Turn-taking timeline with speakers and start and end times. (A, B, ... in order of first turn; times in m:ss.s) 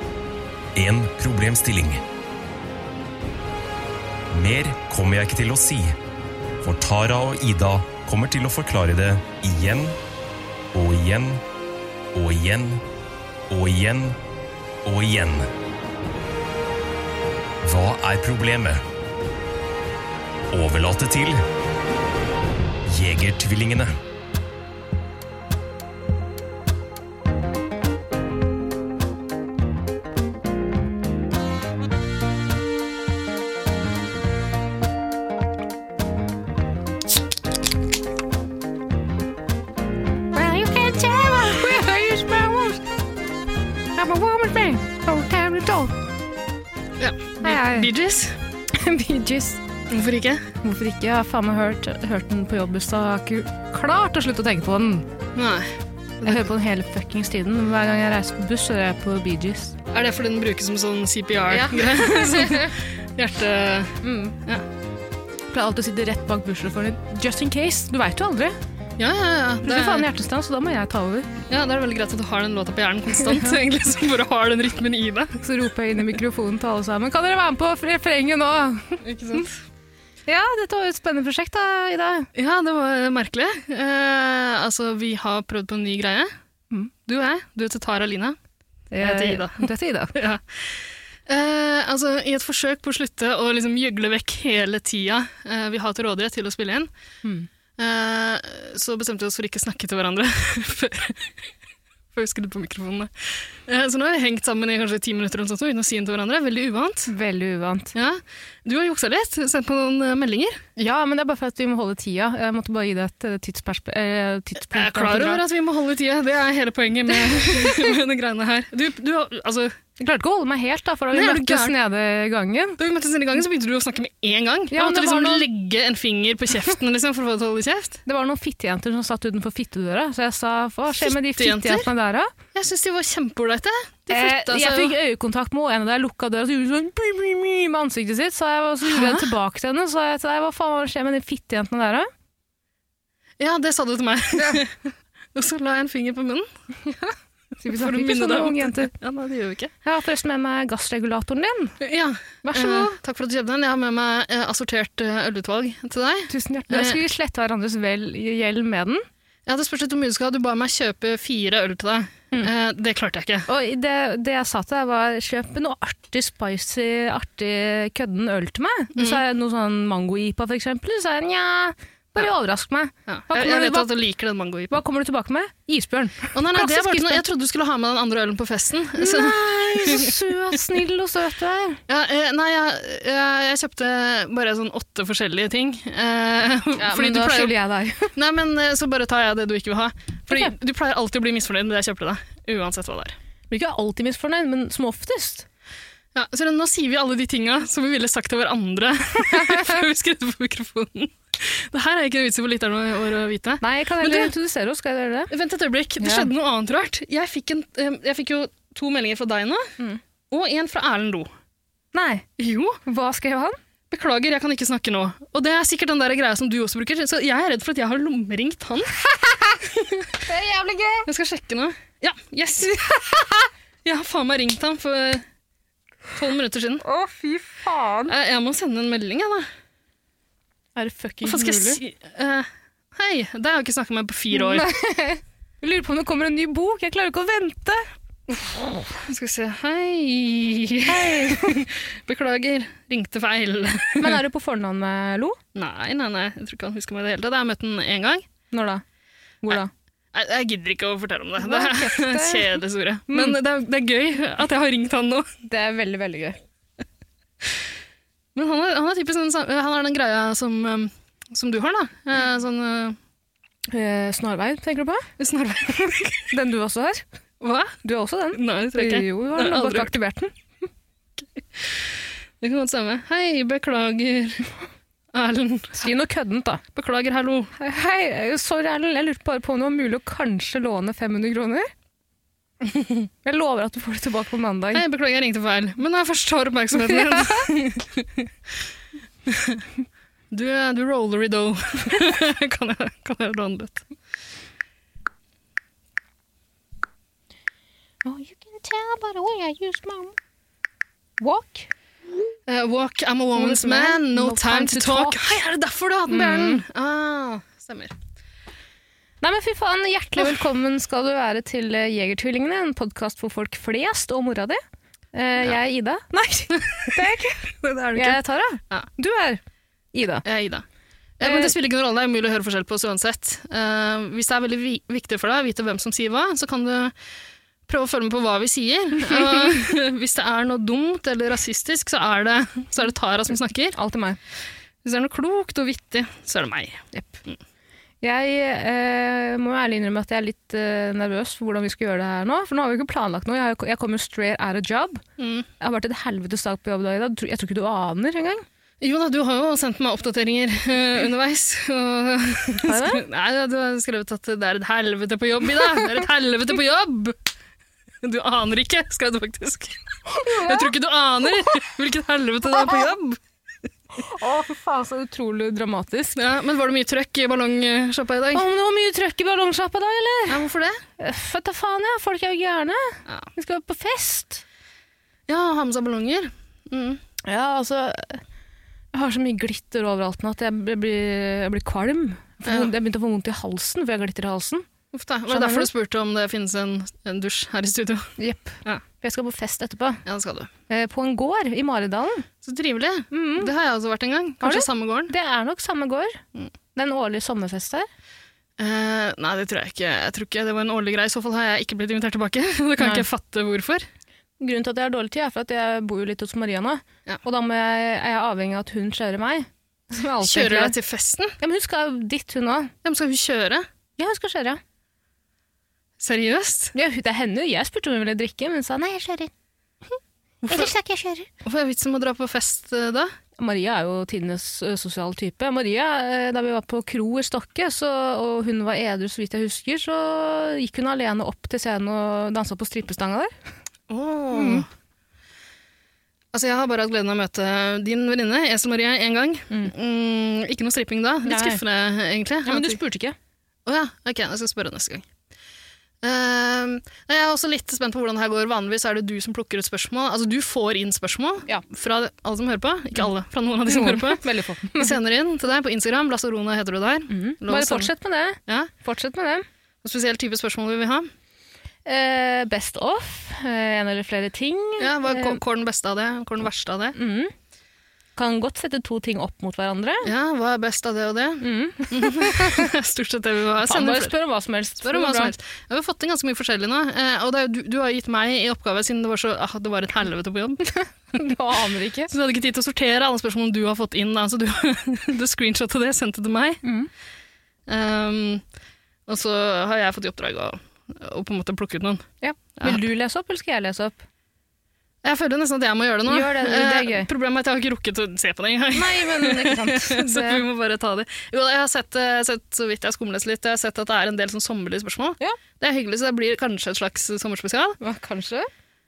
0:00.8-0:02.0 A
0:04.3-0:06.0 A
0:06.6-0:10.0 A
0:10.7-0:11.4 A
0:12.1-0:12.8 A
0:13.5-0:14.2 A
0:14.8-0:15.5 A
0:17.6-0:18.8 A
0:20.5-0:21.4 A
0:22.9-0:23.9 A
0:40.3-0:42.8 B
0:44.0-0:46.0 B
0:47.0-0:48.4 C
0:47.4-0:47.9 B
0:48.7-0:49.6 B
0:49.9-0:50.5 C
0:50.6-0:55.1 B
0:55.4-0:56.5 C
0:56.2-0:59.8 B
0:59.9-1:04.6 C
1:01.5-1:02.7 B
1:04.0-1:04.4 B
1:05.5-1:08.6 B
1:09.0-1:10.1 C
1:09.6-1:11.3 B
1:11.5-1:15.4 C
1:13.2-1:13.6 B
1:15.4-1:19.4 B
1:19.0-1:19.6 C
1:20.3-1:22.3 B
1:22.4-1:26.3 C
1:27.1-1:28.4 C
1:28.9-1:30.2 B
1:29.0-1:36.9 C
1:37.8-1:41.5 C
1:42.1-1:47.1 C
1:47.1-1:47.9 B
1:47.9-1:50.6 C
1:50.8-1:55.4 B
1:54.7-1:59.7 C
1:57.2-1:57.9 B
2:00.0-2:02.8 B
2:01.1-2:01.7 C
2:02.8-2:08.0 C
2:04.7-2:05.5 B
2:08.1-2:12.3 B
2:11.0-2:11.9 C
2:12.5-2:14.9 C
2:14.1-2:22.1 B
2:18.8-2:19.3 C
2:23.4-2:24.7 C
2:25.4-2:26.5 C
2:26.8-2:28.9 B
2:27.8-2:29.7 C
2:29.8-2:31.8 B
2:31.8-2:37.0 C
2:32.4-2:33.0 B
2:36.3-2:39.0 B
2:39.5-2:43.5 C
2:43.5-2:53.9 B
2:49.0-2:49.2 C
2:53.1-2:54.8 C
2:54.7-2:57.2 B
2:56.4-3:00.2 C
2:59.0-3:01.8 B
3:01.9-3:07.5 C
3:06.8-3:08.1 B
3:08.2-3:13.2 C
3:10.3-3:10.5 B
3:13.5-3:15.5 B
3:16.2-3:24.3 C
3:19.4-3:19.7 B
3:23.6-3:25.3 B
3:25.3-3:29.7 C
3:26.0-3:26.3 B
3:30.3-3:31.3 C
3:31.9-3:32.2 B
3:32.4-3:32.8 C
3:32.9-3:33.6 B
3:33.9-3:39.0 C
3:39.1-3:41.1 B
3:39.8-3:40.1 C
3:41.1-3:43.1 C
3:42.7-3:43.4 B
3:43.8-3:45.2 C
3:46.1-3:46.8 C
3:46.8-3:48.1 B
3:48.1-3:49.5 C
3:50.8-3:51.8 B
3:51.2-3:54.7 C
3:54.3-3:57.9 B
3:59.0-4:04.2 C
4:00.9-4:01.7 B
4:04.0-4:05.4 B
4:05.6-4:08.2 C
4:08.5-4:08.8 B
4:09.4-4:09.7 B
4:10.1-4:15.3 C
4:11.4-4:12.6 B
4:13.1-4:13.4 B
4:15.4-4:16.4 B
4:18.4-4:23.0 C
4:23.7-4:25.1 B
4:25.2-4:26.3 C
4:26.3-4:27.0 B
4:27.4-4:27.8 C
4:27.8-4:30.3 B
4:28.3-4:29.9 C
4:31.6-4:34.5 C
4:35.1-4:35.8 C
4:35.8-4:36.6 B
4:36.8-4:37.5 C
4:37.6-4:41.7 B
4:43.2-4:44.8 B
4:44.7-4:48.3 C
4:46.8-4:47.7 B
4:49.3-4:49.6 C
4:50.3-4:53.8 C
4:58.0-5:00.2 B
5:01.2-5:01.7 B
5:02.5-5:07.9 C
5:03.4-5:05.2 B
5:06.1-5:06.6 B
5:09.2-5:14.6 B
5:15.1-5:17.4 B
5:16.6-5:18.2 C
5:18.0-5:19.4 B
5:19.9-5:20.2 B
5:20.2-5:20.6 C
5:21.2-5:26.9 C
5:21.2-5:21.5 B
5:27.7-5:33.8 C
5:29.0-5:29.6 B
5:33.8-5:34.2 B
5:34.8-5:37.4 C
5:36.9-5:37.2 B
5:38.0-5:45.0 B
5:45.2-5:45.5 C
5:45.6-5:48.4 B
5:48.8-5:57.2 C
5:52.6-5:53.0 B
5:58.0-6:03.2 C
6:00.1-6:00.7 B
6:02.5-6:02.9 B
6:04.0-6:06.2 B
6:06.2-6:08.4 C
6:08.3-6:10.5 B
6:10.3-6:10.8 C
6:11.0-6:14.4 B
6:15.3-6:17.0 C
6:17.2-6:18.2 B
6:18.9-6:24.7 B
6:24.9-6:28.8 C
6:25.3-6:25.7 B
6:28.2-6:30.0 B
6:30.1-6:30.5 C
6:30.7-6:32.3 B
6:32.4-6:35.1 C
6:33.1-6:33.5 B
6:34.4-6:36.2 B
6:36.8-6:37.9 B
6:38.6-6:43.9 C
6:42.8-6:43.1 B
6:44.4-6:50.8 B
6:50.2-6:51.4 C
6:51.4-6:52.7 B
6:52.8-6:53.7 C
6:54.0-6:54.6 B
6:56.0-6:56.7 C
6:56.7-6:59.3 B
7:00.4-7:00.7 C
7:00.5-7:01.3 B
7:01.4-7:03.1 C
7:03.4-7:13.3 B
7:13.9-7:14.7 C
7:14.3-7:14.6 B
7:16.3-7:22.8 C
7:21.2-7:21.6 B
7:22.4-7:23.2 B
7:23.7-7:25.0 C
7:26.0-7:34.2 C
7:33.7-7:35.0 B
7:34.8-7:37.9 C
7:37.1-7:39.5 B
7:39.8-7:41.1 C
7:41.8-7:45.4 B
7:44.8-7:47.0 C
7:47.0-7:47.3 B
7:48.2-7:50.1 B
7:50.0-7:54.1 C
7:51.4-7:52.7 B
7:53.6-7:55.3 B
7:54.8-8:01.2 C
8:00.8-8:02.1 B
8:02.1-8:06.6 C
8:06.6-8:06.9 B
8:07.7-8:08.4 C
8:09.1-8:12.1 C
8:12.2-8:14.0 B
8:15.0-8:27.8 C
8:16.1-8:17.1 B
8:18.7-8:20.4 B
8:27.8-8:28.5 B